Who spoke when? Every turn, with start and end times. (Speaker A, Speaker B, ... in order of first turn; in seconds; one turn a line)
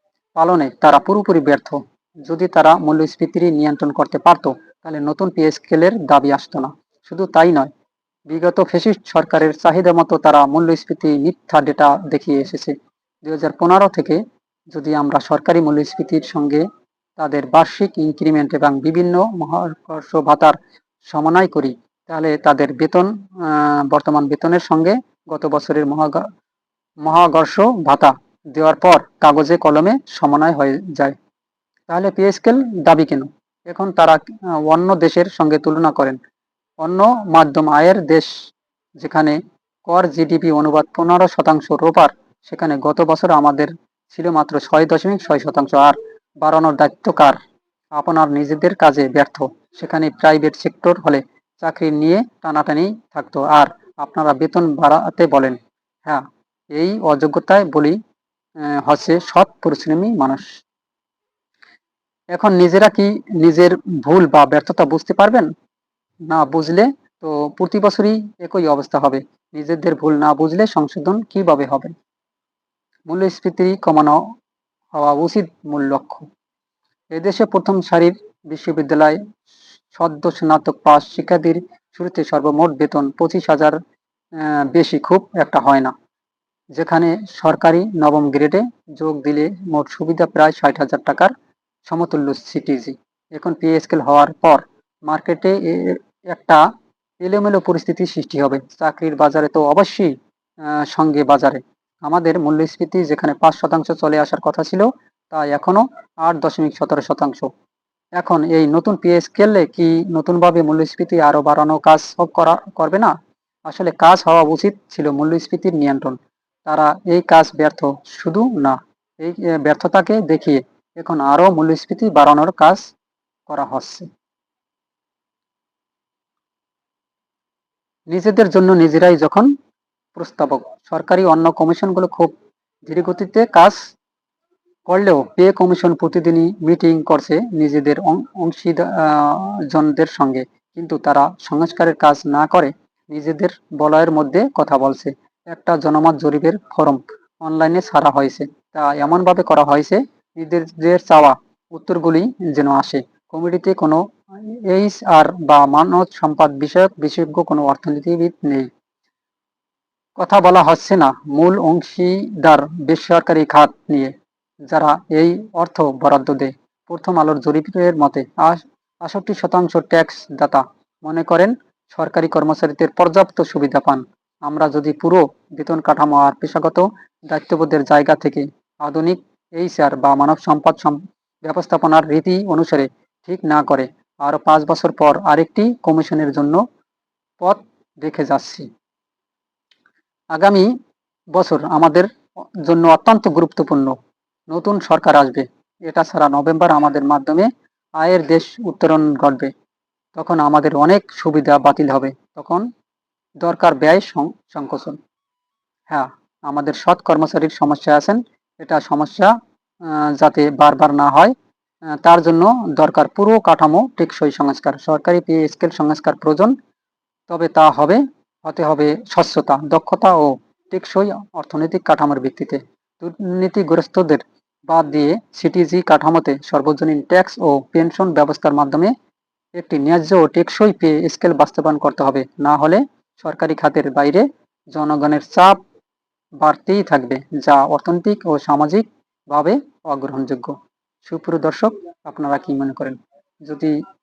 Speaker A: 0.4-7.7
Speaker A: 8.3-14.2
Speaker A: 14.7-16.6
Speaker A: 17.2-26.2
Speaker A: 27.0-31.1
Speaker A: 31.9-36.2
Speaker A: 36.8-38.3
Speaker A: 39.0-47.4
Speaker A: 48.0-58.0
Speaker A: 58.6-60.5
Speaker A: 62.3-65.5
Speaker A: 66.3-71.9
Speaker A: 73.1-74.2
Speaker A: 74.9-76.3
Speaker A: 77.1-79.2
Speaker A: 80.0-83.8
Speaker A: 84.3-85.9
Speaker A: 86.8-91.3
Speaker A: 91.9-96.7
Speaker A: 97.2-107.5
Speaker A: 108.2-113.1
Speaker A: 113.7-122.9
Speaker A: 123.5-124.1
Speaker A: 128.1-129.5
Speaker A: 130.1-132.3
Speaker A: 132.9-133.8
Speaker A: 134.9-158.7
Speaker A: 160.2-164.1
Speaker A: 164.7-186.6
Speaker A: 187.4-188.7
Speaker A: 190.3-190.7
Speaker A: 191.3-192.1
Speaker A: 192.6-194.0
Speaker A: 194.5-199.5
Speaker A: 200.2-202.7
Speaker A: 203.4-205.0
Speaker A: 205.9-211.3
Speaker A: 212.0-216.5
Speaker A: 217.3-228.9
Speaker A: 229.6-235.6
Speaker A: 236.4-243.8